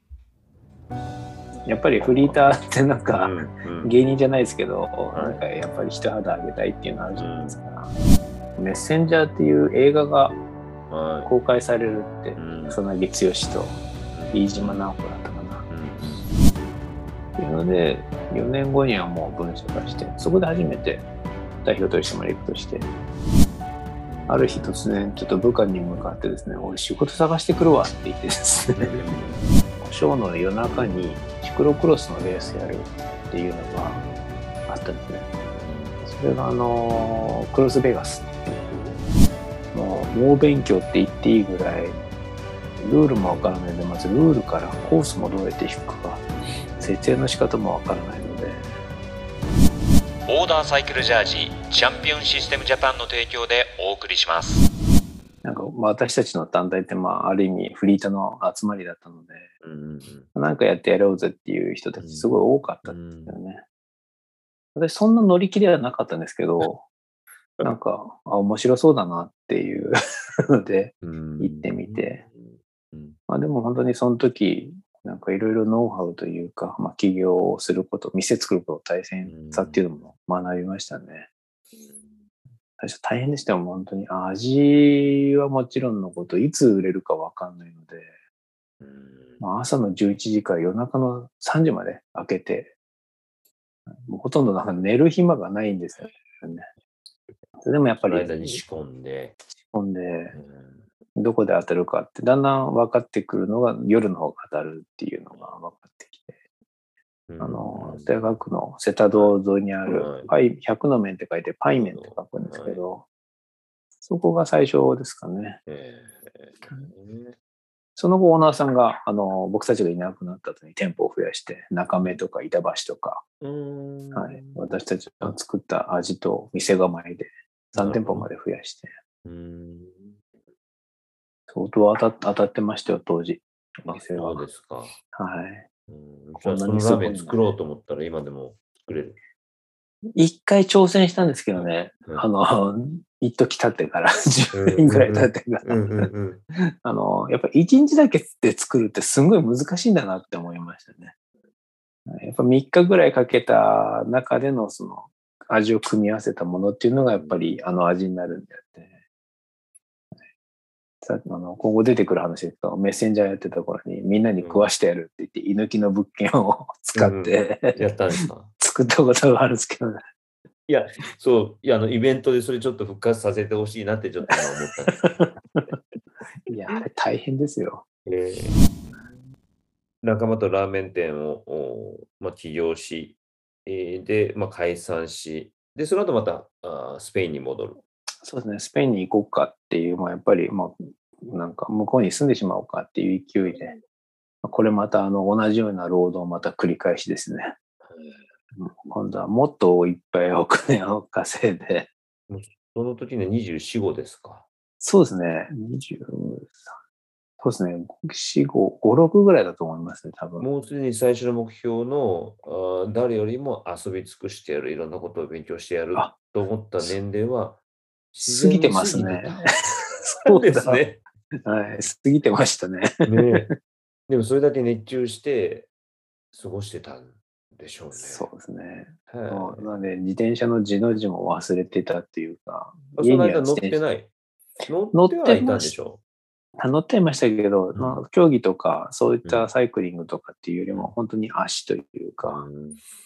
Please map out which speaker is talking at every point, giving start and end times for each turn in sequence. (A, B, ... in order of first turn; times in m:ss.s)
0:01.7-0:07.9 A
0:03.1-0:03.9 B
0:05.1-0:05.4 B
0:07.2-0:07.6 B
0:08.6-0:10.4 A
0:10.9-0:11.3 B
0:11.2-0:13.8 A
0:12.4-0:12.8 B
0:14.1-0:14.9 B
0:14.3-0:15.7 A
0:15.7-0:16.3 B
0:17.4-0:21.1 A
0:21.6-0:22.9 A
0:24.1-0:24.7 B
0:24.3-0:29.0 A
0:28.8-0:29.5 B
0:29.8-0:34.0 A
0:30.7-0:31.0 B
0:34.7-0:35.3 A
0:35.6-0:36.0 B
0:36.0-0:39.0 A
0:39.7-0:42.0 A
0:42.8-0:46.2 A
0:46.8-0:48.7 A
0:50.3-0:54.7 C
0:55.4-0:59.5 A
0:59.6-1:00.3 B
1:00.3-1:03.6 A
1:02.0-1:03.4 B
1:04.8-1:06.8 A
1:07.6-1:10.0 A
1:10.5-1:12.2 A
1:11.0-1:13.2 B
1:13.3-1:21.3 A
1:19.2-1:19.9 B
1:21.7-1:22.2 B
1:22.8-1:28.1 A
1:28.8-1:29.4 B
1:29.4-1:32.7 A
1:34.1-1:36.7 A
1:37.6-1:38.6 A
1:38.0-1:39.4 B
1:39.6-1:40.4 A
1:40.3-1:40.8 B
1:41.2-1:46.4 A
1:47.3-1:48.4 B
1:47.4-1:53.0 A
1:49.9-1:50.3 B
1:51.9-1:52.8 B
1:54.0-1:55.6 A
1:55.7-1:57.4 B
1:58.0-2:03.2 A
2:03.4-2:04.6 B
2:04.1-2:08.9 A
2:07.7-2:08.3 B
2:09.2-2:10.2 B
2:11.5-2:14.4 A
2:13.9-2:15.0 B
2:15.1-2:15.7 A
2:15.9-2:19.2 B
2:16.4-2:17.4 A
2:20.2-2:31.1 A
2:21.5-2:22.3 B
2:24.5-2:26.4 B
2:32.1-2:39.0 A
2:37.2-2:37.5 B
2:41.0-2:47.8 A
2:44.4-2:44.7 B
2:47.0-2:48.5 B
2:48.6-2:50.0 A
2:50.7-2:55.1 B
2:55.0-2:55.7 A
2:56.5-2:57.8 A
2:58.1-2:58.6 B
3:00.0-3:07.8 B
3:08.2-3:13.8 A
3:14.4-3:17.5 A
3:17.9-3:18.2 B
3:18.6-3:21.9 A
3:22.3-3:24.4 B
3:24.8-3:26.7 A
3:27.4-3:30.5 A
3:30.4-3:37.6 B
3:38.1-3:41.0 B
3:38.2-3:40.8 A
3:41.4-3:43.4 A
3:43.0-3:43.5 B
3:44.1-3:45.7 B
3:46.3-3:48.3 B
3:48.0-3:53.8 A
3:49.1-3:49.7 B
3:53.0-3:54.1 B
3:54.7-3:56.0 B
3:54.9-3:55.8 A
3:56.6-4:02.5 A
3:57.7-3:58.0 B
3:59.2-3:59.5 B
4:02.2-4:02.8 B